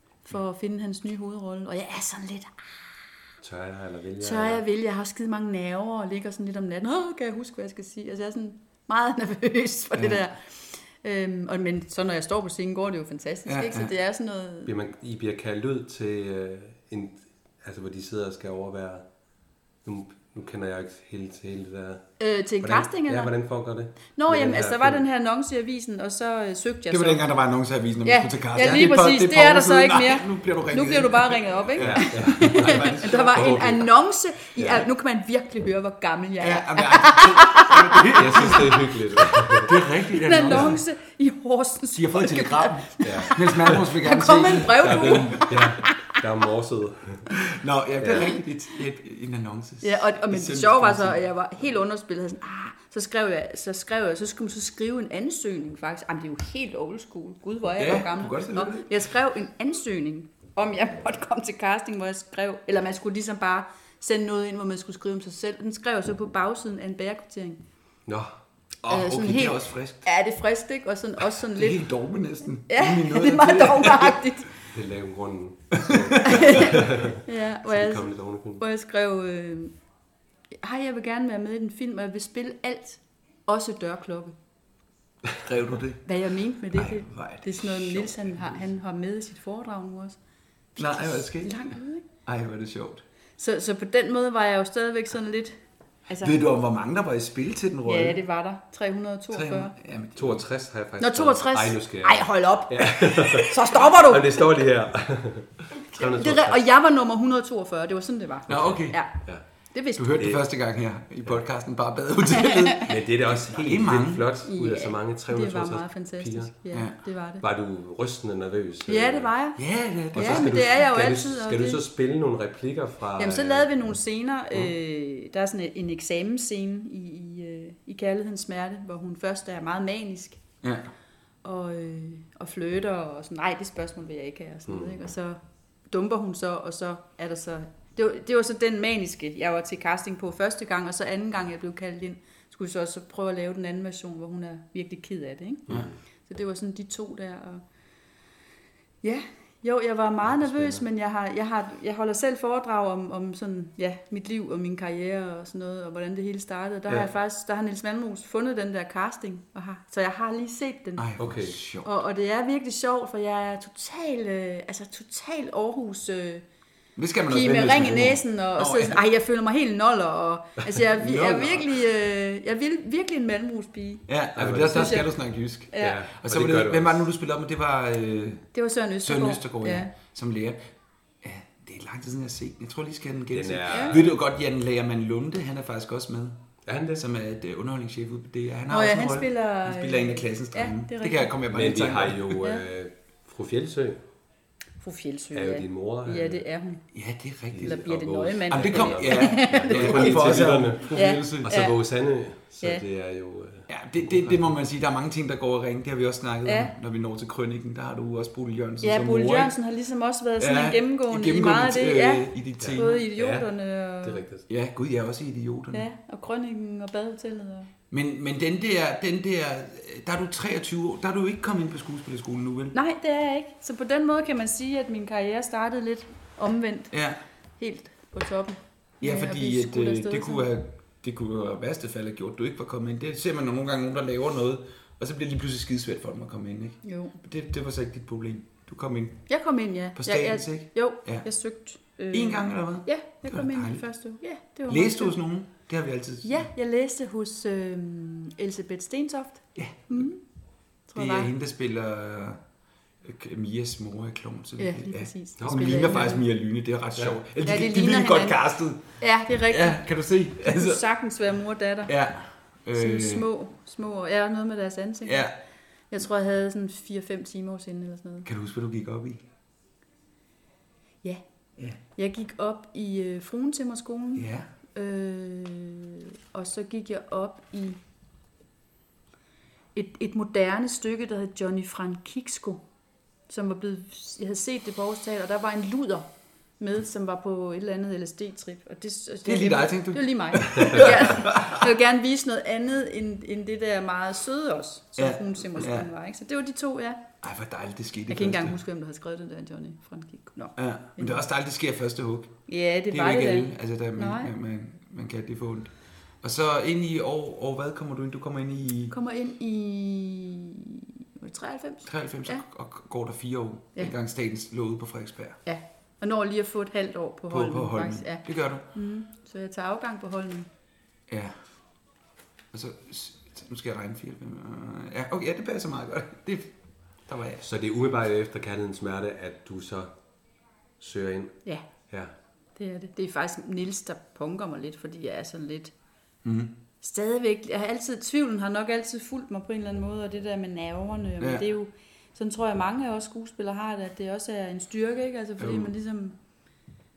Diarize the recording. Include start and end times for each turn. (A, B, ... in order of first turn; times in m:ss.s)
0:00.2-0:02.6 A
0:03.4-0:04.6 B
0:04.2-0:14.7 A
0:13.5-0:13.9 C
0:14.7-0:19.0 B
0:19.8-0:25.0 B
0:22.2-0:23.3 A
0:24.1-0:27.2 A
0:26.9-0:33.8 C
0:28.0-0:38.5 A
0:31.8-0:33.9 B
0:34.6-0:34.9 B
0:36.4-0:40.8 C
0:38.1-0:39.7 B
0:40.2-0:46.2 A
0:40.5-0:40.8 B
0:41.9-0:45.7 C
0:43.0-0:43.9 B
0:44.7-0:47.3 B
0:47.4-0:51.2 C
0:48.0-0:48.3 B
0:49.8-1:07.6 A
0:57.8-0:58.9 C
1:08.8-1:10.1 C
1:08.9-1:11.9 A
1:11.4-1:14.2 C
1:12.7-1:14.5 A
1:14.7-1:18.6 B
1:15.8-1:16.6 C
1:16.2-1:19.7 A
1:20.6-1:24.3 A
1:25.3-1:26.1 C
1:26.0-1:30.2 A
1:26.6-1:28.4 C
1:30.7-1:32.0 A
1:30.8-1:31.7 C
1:32.2-1:33.0 C
1:33.4-1:35.5 A
1:36.1-1:36.4 A
1:36.2-1:38.2 C
1:37.8-1:39.7 A
1:39.3-1:40.4 C
1:40.2-1:46.6 B
1:41.0-1:44.6 A
1:45.9-1:49.1 A
1:48.5-1:49.0 C
1:49.7-1:50.2 A
1:50.0-1:54.3 C
1:50.1-1:50.4 B
1:52.4-1:52.8 A
1:52.8-1:56.5 B
1:54.4-1:57.4 A
1:57.4-1:59.3 B
1:58.9-1:59.6 A
1:59.6-2:00.8 C
2:00.1-2:01.8 A
2:00.1-2:03.7 B
2:03.2-2:10.4 A
2:10.6-2:10.9 C
2:11.4-2:15.4 A
2:14.7-2:15.0 B
2:15.9-2:25.7 A
2:26.2-2:27.6 A
2:29.0-2:41.1 A
2:30.3-2:30.8 B
2:41.0-2:41.9 C
2:41.2-2:41.6 B
2:41.8-2:46.4 A
2:47.0-2:49.0 C
2:47.3-2:54.0 A
2:50.9-2:51.8 C
2:54.1-2:58.5 C
2:54.4-2:55.0 B
2:54.6-2:55.1 A
2:55.7-2:56.0 A
2:55.8-2:57.0 B
2:58.5-2:59.9 A
2:59.0-3:00.6 C
3:01.2-3:06.4 C
3:03.3-3:04.1 B
3:03.7-3:04.0 A
3:06.6-3:07.0 B
3:06.9-3:12.4 C
3:08.7-3:11.4 A
3:11.5-3:14.0 B
3:14.8-3:16.8 A
3:15.3-3:16.4 B
3:16.9-3:17.8 C
3:17.5-3:24.5 B
3:17.6-3:21.8 A
3:18.5-3:21.5 C
3:23.7-3:29.5 C
3:26.4-3:26.7 A
3:28.8-3:34.2 A
3:30.4-3:33.0 C
3:32.6-3:33.5 B
3:34.0-3:34.4 B
3:34.5-3:35.9 C
3:35.7-3:37.7 A
3:37.9-3:42.7 C
3:42.7-3:47.0 A
3:46.9-3:47.2 C
3:47.6-3:50.5 A
3:49.0-3:59.2 C
3:56.8-3:57.1 A
3:59.3-4:05.2 A
4:00.0-4:01.3 C
4:02.1-4:03.8 C
4:04.7-4:06.5 C
4:06.2-4:10.2 A
4:09.6-4:10.0 C
4:10.9-4:11.3 A
4:11.0-4:12.4 C
4:13.0-4:18.8 C
4:14.6-4:16.2 A
4:15.4-4:16.1 B
4:17.4-4:18.4 A
4:19.0-4:19.9 A
4:19.5-4:20.8 C
4:20.4-4:21.9 A
4:21.9-4:23.3 C
4:22.7-4:25.3 A
4:25.0-4:25.3 C
4:25.9-4:28.3 A
4:28.2-4:29.2 C
4:31.9-4:37.8 A
4:34.2-4:34.5 C
4:39.7-4:42.6 A
4:43.3-4:46.1 A
4:46.6-4:57.0 A
4:49.2-4:51.7 C
4:55.0-4:55.9 C
4:57.2-4:58.6 C
4:58.1-5:01.2 A
5:00.6-5:02.3 C
5:02.5-5:04.3 A
5:02.9-5:08.9 C
5:08.9-5:12.4 A
5:11.8-5:15.4 C
5:15.4-5:20.5 A
5:17.3-5:18.6 C
5:21.1-5:21.3 C
5:22.5-5:26.5 C
5:27.1-5:27.4 C
5:27.4-5:29.9 B
5:30.8-5:31.4 B
5:32.6-5:35.7 A
5:36.2-5:36.5 C
5:36.8-5:46.2 A
5:41.2-5:41.4 C
5:45.4-5:45.7 C